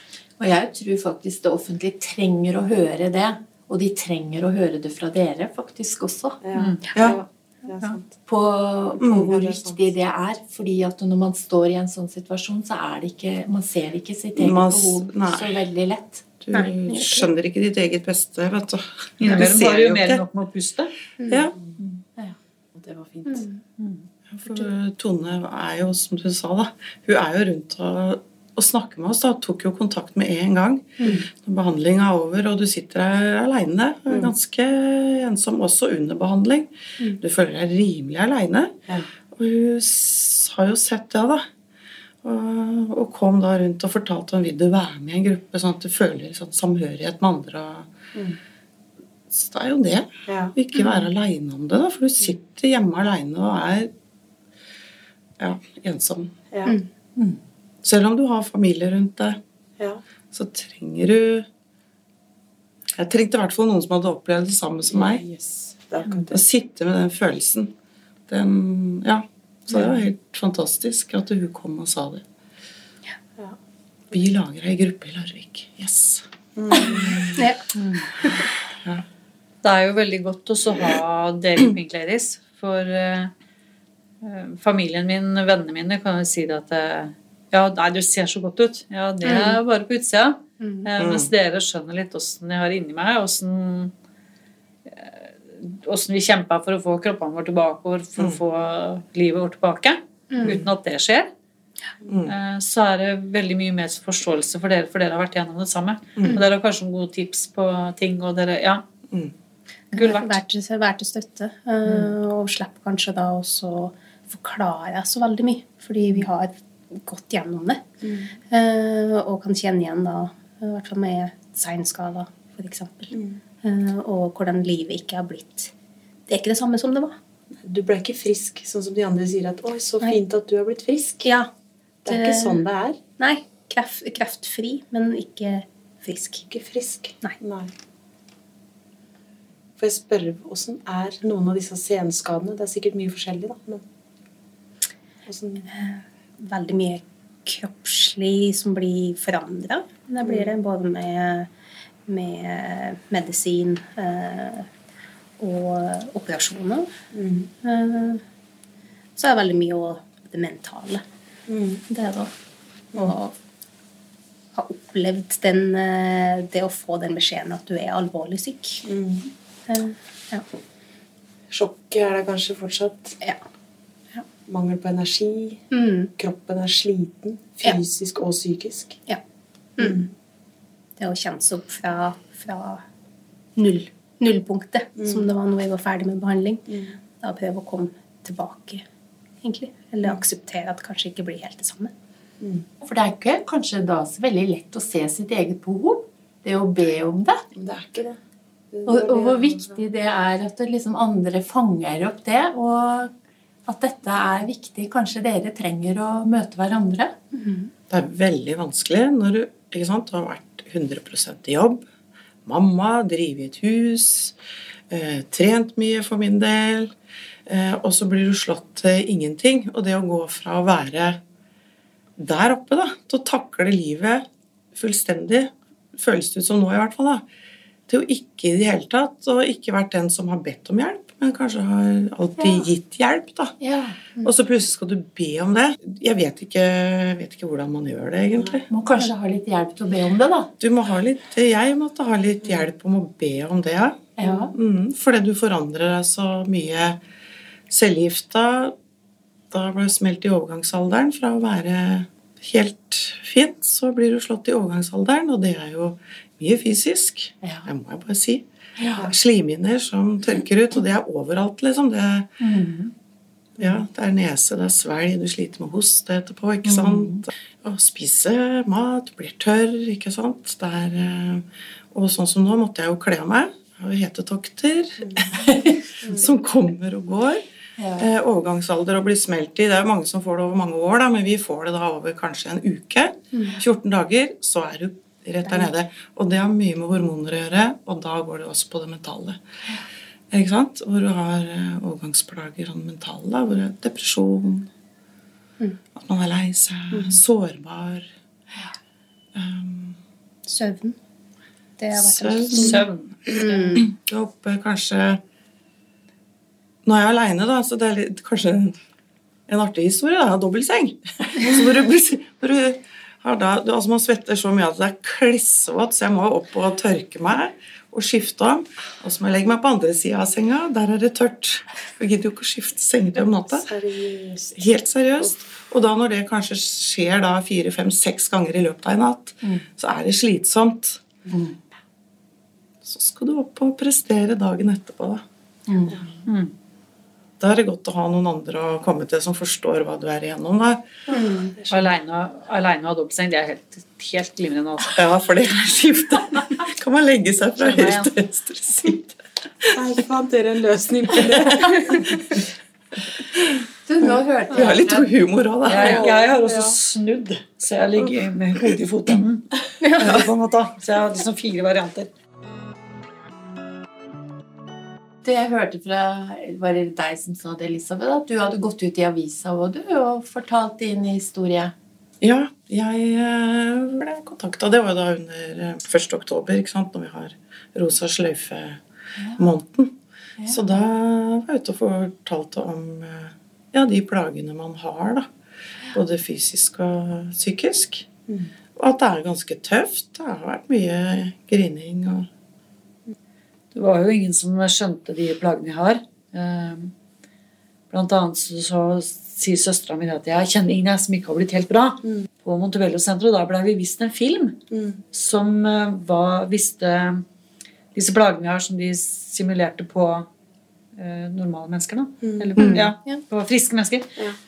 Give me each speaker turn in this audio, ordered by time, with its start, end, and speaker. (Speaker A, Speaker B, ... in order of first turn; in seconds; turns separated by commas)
Speaker A: 0.4-6.4, Speaker B: 6.4-8.1, Speaker C: 6.6-6.8, Speaker A: 8.3-16.2, Speaker D: 9.0-9.4, Speaker B: 9.2-9.8, Speaker D: 14.4-15.6, Speaker D: 16.4-20.2, Speaker E: 16.5-17.3, Speaker C: 19.2-20.9, Speaker E: 21.2-21.5, Speaker D: 21.3-21.5, Speaker B: 21.6-22.0, Speaker B: 22.7-23.4, Speaker E: 23.3-23.6, Speaker C: 23.8-24.1, Speaker D: 24.3-38.8, Speaker D: 39.3-41.5, Speaker D: 42.2-47.9, Speaker D: 49.3-53.9, Speaker B: 50.3-50.6, Speaker D: 55.4-56.3, Speaker B: 56.5-57.4, Speaker D: 57.8-59.4, Speaker D: 60.3-61.5, Speaker D: 63.0-65.2, Speaker B: 64.9-66.4, Speaker D: 66.3-67.7, Speaker D: 68.3-72.2, Speaker D: 74.1-76.3, Speaker B: 76.6-77.4, Speaker D: 76.8-77.4, Speaker E: 77.4-77.6, Speaker C: 79.6-83.3, Speaker C: 84.2-93.9, Speaker E: 89.2-89.6, Speaker E: 90.6-90.9, Speaker D: 91.0-91.3, Speaker C: 94.9-101.3, Speaker E: 100.3-100.6, Speaker D: 100.4-100.7, Speaker D: 102.1-102.3, Speaker C: 102.3-108.8, Speaker D: 106.2-106.4, Speaker C: 109.9-110.4, Speaker E: 110.0-117.9, Speaker B: 118.0-118.3, Speaker E: 118.4-125.7, Speaker B: 123.1-123.4, Speaker E: 126.3-127.2, Speaker B: 127.6-131.3, Speaker E: 131.2-131.5, Speaker B: 132.1-133.0, Speaker E: 132.1-132.6, Speaker E: 133.2-136.5, Speaker B: 136.5-137.7, Speaker B: 139.8-143.8, Speaker B: 145.3-145.7, Speaker E: 145.7-151.5, Speaker B: 150.2-150.5, Speaker E: 152.1-154.7, Speaker E: 155.4-156.9, Speaker B: 157.1-157.5, Speaker E: 157.6-158.2, Speaker E: 159.2-161.0, Speaker B: 161.5-161.8, Speaker E: 161.9-162.3, Speaker E: 163.0-163.3, Speaker E: 164.5-168.8, Speaker B: 168.8-169.3, Speaker E: 169.7-170.4, Speaker B: 171.5-173.2, Speaker B: 174.5-175.7, Speaker E: 175.7-176.1, Speaker B: 176.2-179.0, Speaker E: 179.8-180.1, Speaker B: 179.8-180.1, Speaker E: 181.0-182.8, Speaker E: 183.6-186.7, Speaker B: 185.0-185.3, Speaker B: 186.7-187.0, Speaker E: 187.2-188.8, Speaker E: 189.4-191.9, Speaker A: 192.8-197.4, Speaker B: 197.6-198.2, Speaker B: 198.7-199.8, Speaker A: 198.9-203.1, Speaker A: 203.7-207.1, Speaker E: 207.3-207.7, Speaker D: 207.9-211.9, Speaker D: 212.5-214.4, Speaker D: 214.9-216.9, Speaker D: 217.5-221.2, Speaker D: 222.2-227.3, Speaker D: 227.9-233.6, Speaker A: 232.4-232.7, Speaker A: 233.6-234.3, Speaker D: 234.2-238.7, Speaker A: 238.7-240.5, Speaker D: 240.6-247.0, Speaker A: 244.2-244.5, Speaker D: 247.7-248.8, Speaker D: 249.5-258.4, Speaker A: 257.4-257.7, Speaker A: 258.8-259.1, Speaker D: 259.0-262.3, Speaker A: 262.4-262.9, Speaker D: 263.6-277.4, Speaker A: 266.7-267.2, Speaker B: 275.0-275.4, Speaker A: 277.8-278.1, Speaker D: 278.0-289.4, Speaker E: 283.3-283.6, Speaker E: 285.5-285.7, Speaker D: 290.3-294.7, Speaker D: 296.0-298.1, Speaker D: 299.4-300.0, Speaker E: 300.5-301.0, Speaker E: 301.8-303.9, Speaker D: 301.9-305.2, Speaker C: 302.6-303.1, Speaker D: 306.8-308.8, Speaker D: 309.5-323.7, Speaker B: 323.2-324.6, Speaker D: 324.6-331.1, Speaker D: 332.8-335.2, Speaker A: 335.7-336.0, Speaker C: 336.3-336.5, Speaker D: 337.4-340.9, Speaker E: 341.1-341.6, Speaker C: 341.7-345.0, Speaker D: 344.9-349.8, Speaker C: 347.6-348.1, Speaker B: 349.8-352.2, Speaker A: 353.9-355.1, Speaker D: 354.5-356.1, Speaker C: 355.7-362.1, Speaker B: 355.8-356.8, Speaker D: 358.6-359.2, Speaker E: 359.8-360.2, Speaker D: 360.0-360.8, Speaker A: 365.2-371.7, Speaker D: 372.2-378.8, Speaker A: 379.2-379.4, Speaker D: 379.4-380.0, Speaker D: 380.5-385.3, Speaker D: 385.9-388.1, Speaker D: 388.8-392.3, Speaker C: 393.7-396.9, Speaker C: 397.9-404.6, Speaker B: 404.7-405.0, Speaker C: 405.1-407.2, Speaker C: 407.9-410.3, Speaker C: 411.0-414.1, Speaker B: 412.2-412.8, Speaker E: 412.6-413.2, Speaker D: 412.6-412.9